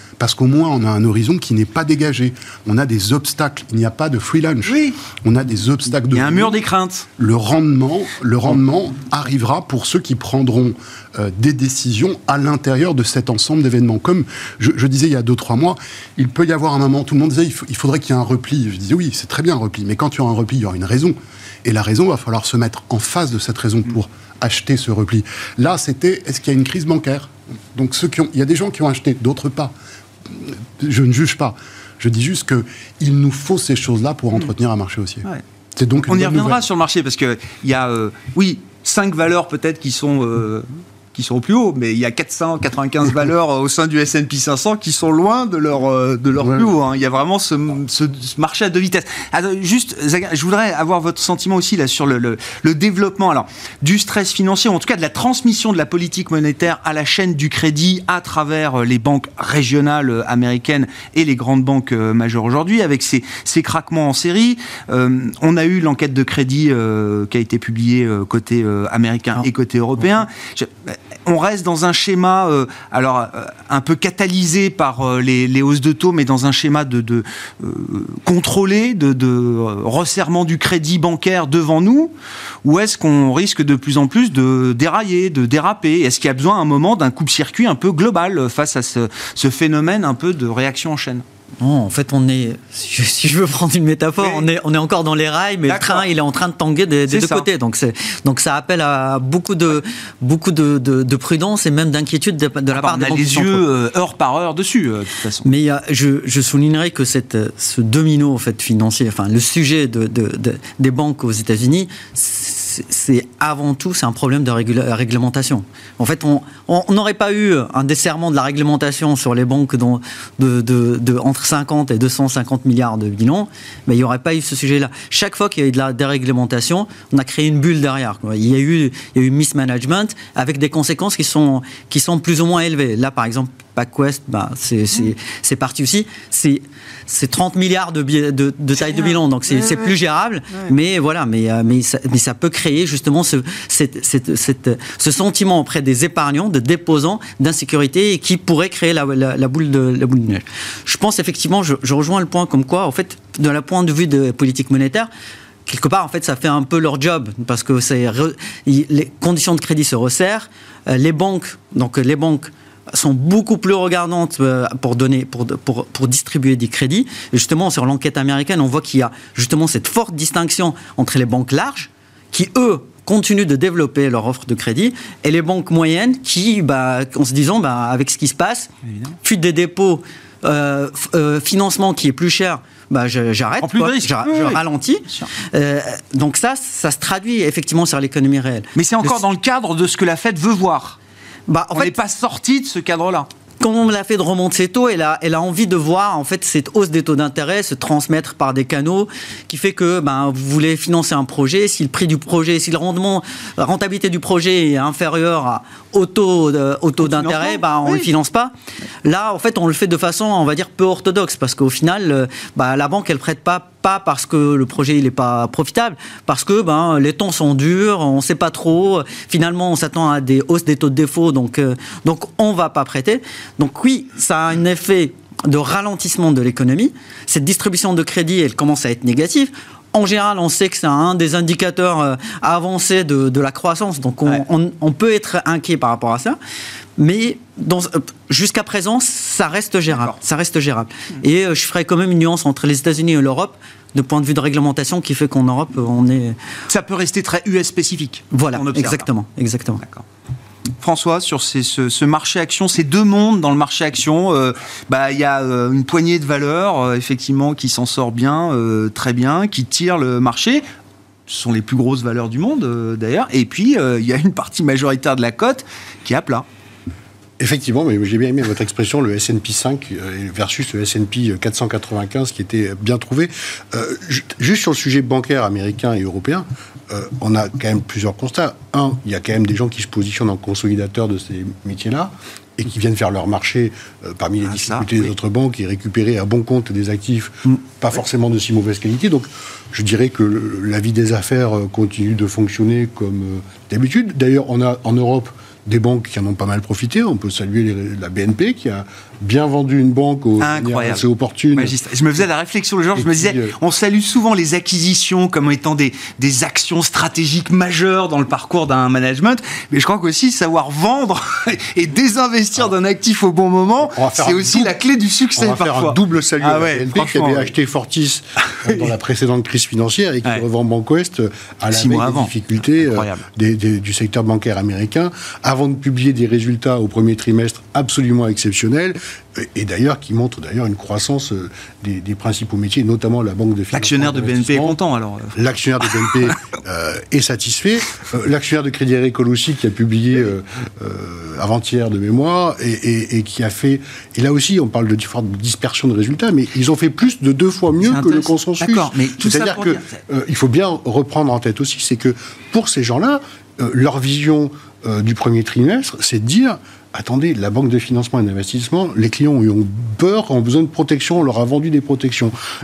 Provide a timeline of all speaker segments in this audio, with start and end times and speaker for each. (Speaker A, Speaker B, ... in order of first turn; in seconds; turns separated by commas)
Speaker A: 0.2-6.6, Speaker B: 4.7-5.0, Speaker B: 6.1-7.1, Speaker A: 7.2-29.7, Speaker A: 30.3-36.6, Speaker B: 36.0-82.1, Speaker A: 46.4-46.7, Speaker B: 82.6-91.2, Speaker C: 91.6-103.6, Speaker B: 94.2-94.5, Speaker B: 95.7-96.1, Speaker B: 97.1-97.5, Speaker B: 102.7-105.5, Speaker C: 105.4-155.1, Speaker B: 138.8-139.9, Speaker C: 155.7-178.7, Speaker B: 178.8-179.2, Speaker C: 179.2-189.2, Speaker B: 183.6-185.3, Speaker B: 188.8-191.0, Speaker C: 191.5-191.9, Speaker B: 191.7-193.3, Speaker C: 193.6-208.5, Speaker B: 207.0-208.1, Speaker C: 209.0-236.4, Speaker C: 237.0-246.4, Speaker B: 246.7-249.1, Speaker C: 248.3-249.8, Speaker B: 250.8-260.6, Speaker B: 261.3-266.4, Speaker D: 267.4-301.7, Speaker B: 284.4-285.1, Speaker B: 300.4-301.0, Speaker B: 301.5-317.5, Speaker D: 303.0-303.6, Speaker D: 313.8-314.7, Speaker D: 315.3-334.8, Speaker B: 318.5-318.9, Speaker B: 321.7-323.2, Speaker B: 333.7-336.3, Speaker D: 335.4-362.3, Speaker B: 347.8-350.0